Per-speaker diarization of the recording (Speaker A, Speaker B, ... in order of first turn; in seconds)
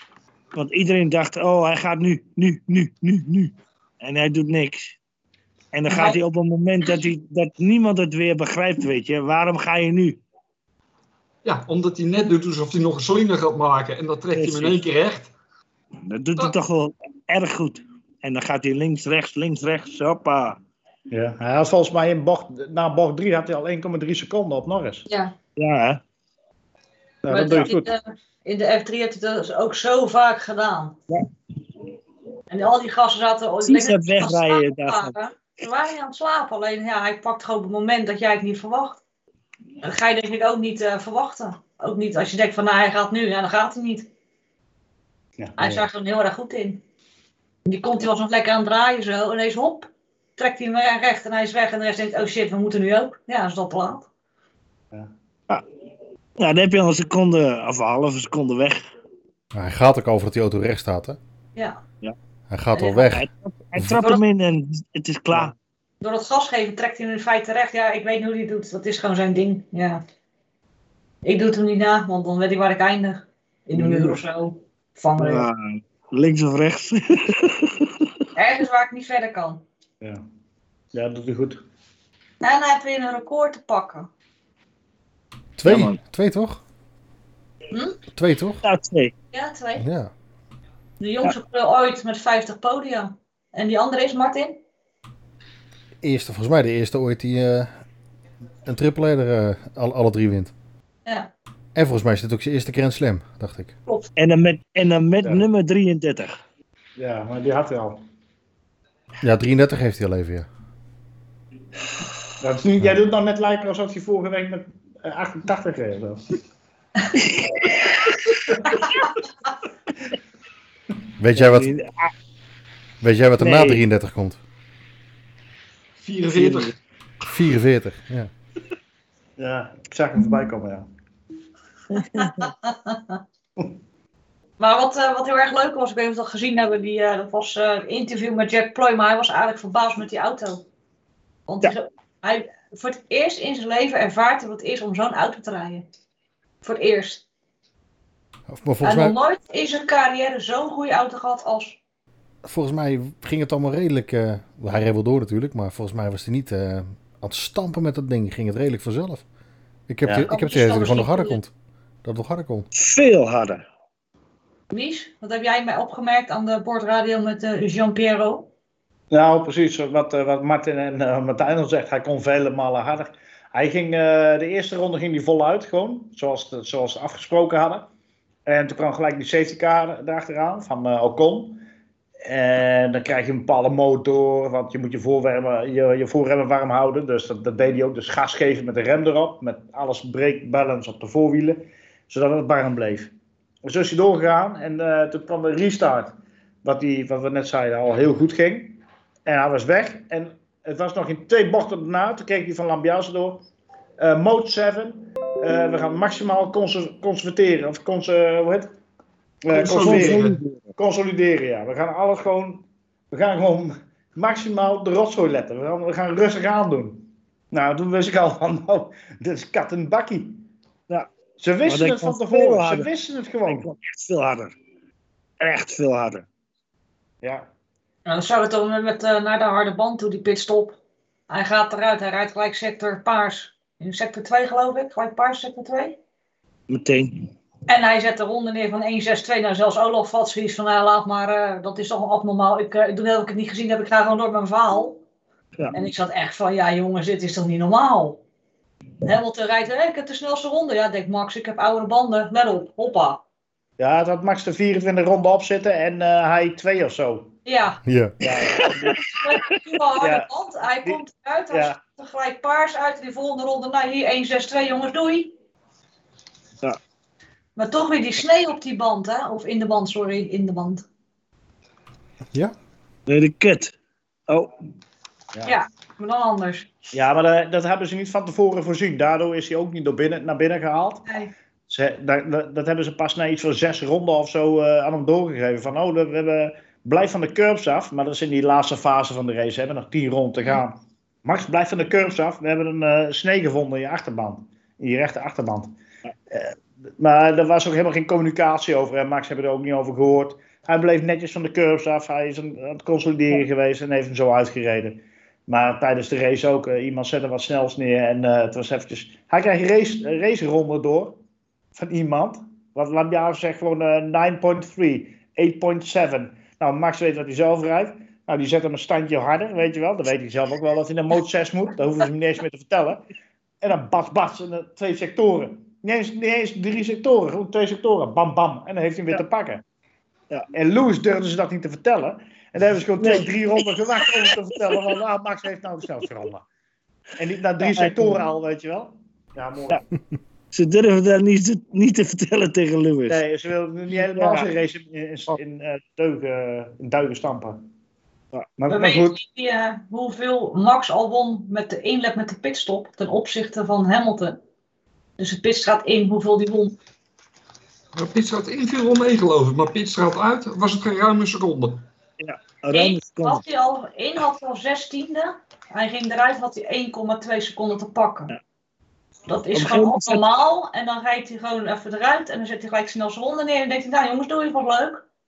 Speaker A: 0.5-5.0, 5.7-10.2, 14.3-14.8, 16.0-20.6, 25.6-26.0, 33.6-35.1, 56.4-58.9, 63.0-65.5, 73.8-74.1, 75.2-78.1, 85.6-86.0, 88.6-89.1, 104.2-106.4, 117.1-118.2, 121.4-122.1, 123.4-123.8, 126.3-126.7, 131.9-132.5, 162.7-163.6, 209.7-210.8, 221.7-222.9, 223.5-224.6, 225.4-226.3, 236.7-237.3, 258.3-259.6, 273.1-273.8, 333.0-333.3, 334.2-334.8, 337.6-338.1, 340.5-343.2, 343.9-344.5, 362.2-363.4, 369.5-370.2
Speaker B: 5.9-6.2, 25.1-25.4, 27.3-31.0, 32.5-39.0, 39.8-44.1, 45.6-46.8, 47.7-54.1, 61.6-61.8, 66.0-70.0, 71.2-75.5, 78.4-79.6, 82.4-84.1, 87.7-88.0, 89.3-89.9, 91.0-94.6, 101.1-101.3, 132.0-133.2, 134.6-140.7, 141.5-145.9, 146.6-147.2, 148.8-151.8, 160.3-161.4, 164.7-168.5, 228.1-236.0, 237.7-245.0, 245.7-248.2, 249.1-253.2, 257.4-257.8, 259.0-265.4, 267.6-270.9, 275.4-276.7, 281.1-281.3, 348.7-354.4, 355.2-356.8, 362.7-368.3, 369.3-375.1
Speaker C: 11.4-15.3, 126.0-126.8, 209.5-210.4, 357.9-361.9
Speaker D: 21.1-25.1, 27.2-27.9, 45.4-45.9, 80.9-81.6, 107.0-108.0, 112.4-116.2, 129.4-130.9, 169.1-177.9, 178.5-181.6, 182.2-193.1, 193.6-203.4, 204.0-208.7, 209.4-220.4, 221.4-223.7, 227.2-227.5, 253.8-257.4, 258.2-259.0, 260.0-260.3, 260.8-261.8, 276.9-281.1, 281.7-295.7, 296.3-311.2, 311.8-323.1, 323.6-329.6, 330.5-336.4, 337.2-339.8, 343.1-347.6, 348.6-349.2
Speaker E: 59.5-61.2, 62.5-63.3, 85.6-86.6, 88.2-88.6, 89.8-90.1, 96.0-97.7, 98.7-100.5, 101.8-103.8, 109.2-110.5, 121.2-121.7, 123.0-124.4, 127.2-128.3, 148.5-149.2, 152.4-159.2, 159.9-161.5, 162.0-162.7, 257.9-258.2